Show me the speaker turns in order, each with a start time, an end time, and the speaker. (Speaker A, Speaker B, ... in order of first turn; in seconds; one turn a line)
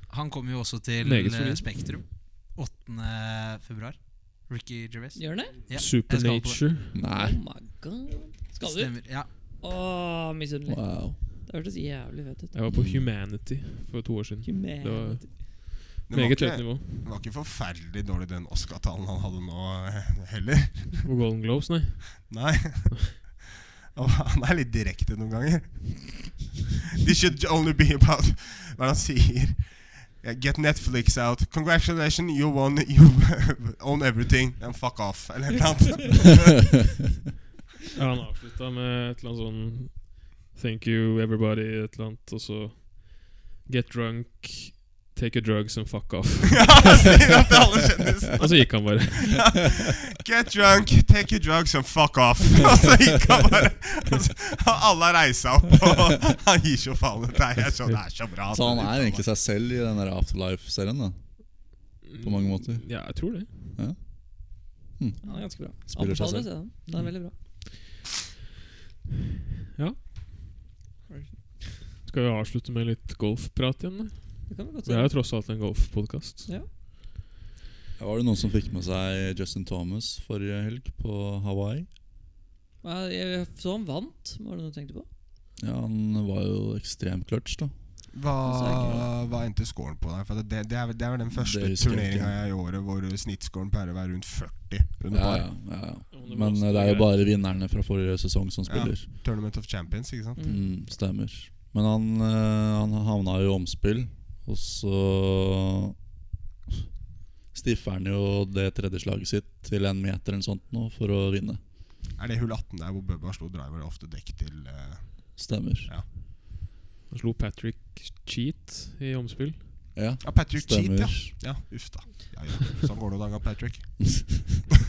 Speaker A: 0.1-6.6
Speaker B: 1.0-2.0
Speaker C: 5.1-5.6
Speaker B: 5.7-7.0
Speaker D: 6.9-7.4
Speaker C: 7.1-12.5
Speaker A: 8.6-9.3
Speaker D: 10.7-11.2
Speaker B: 12.5-17.1
Speaker D: 12.7-13.1
Speaker C: 14.4-15.4
Speaker E: 16.1-21.0
Speaker B: 21.0-22.3
Speaker E: 22.2-36.8
Speaker B: 38.0-47.4
Speaker E: 46.5-59.2
Speaker B: 48.4-49.7
Speaker D: 58.5-61.7
Speaker B: 62.0-63.7
Speaker D: 62.2-62.9
Speaker D: 63.7-66.8
Speaker C: 65.2-67.3
Speaker C: 71.1-71.4
Speaker B: 72.0-76.5
Speaker C: 74.5-75.1
Speaker D: 78.0-81.9
Speaker C: 82.8-85.0
Speaker D: 85.6-87.7
Speaker E: 88.1-95.5
Speaker C: 88.4-89.1
Speaker D: 91.3-92.4
Speaker D: 95.1-99.1
Speaker B: 96.1-97.3
Speaker E: 98.7-100.4
Speaker C: 100.3-100.7
Speaker D: 100.4-106.0
Speaker D: 107.5-111.6
Speaker E: 112.2-116.1
Speaker D: 115.4-115.9
Speaker B: 117.1-119.9
Speaker D: 119.9-121.3
Speaker E: 120.2-124.5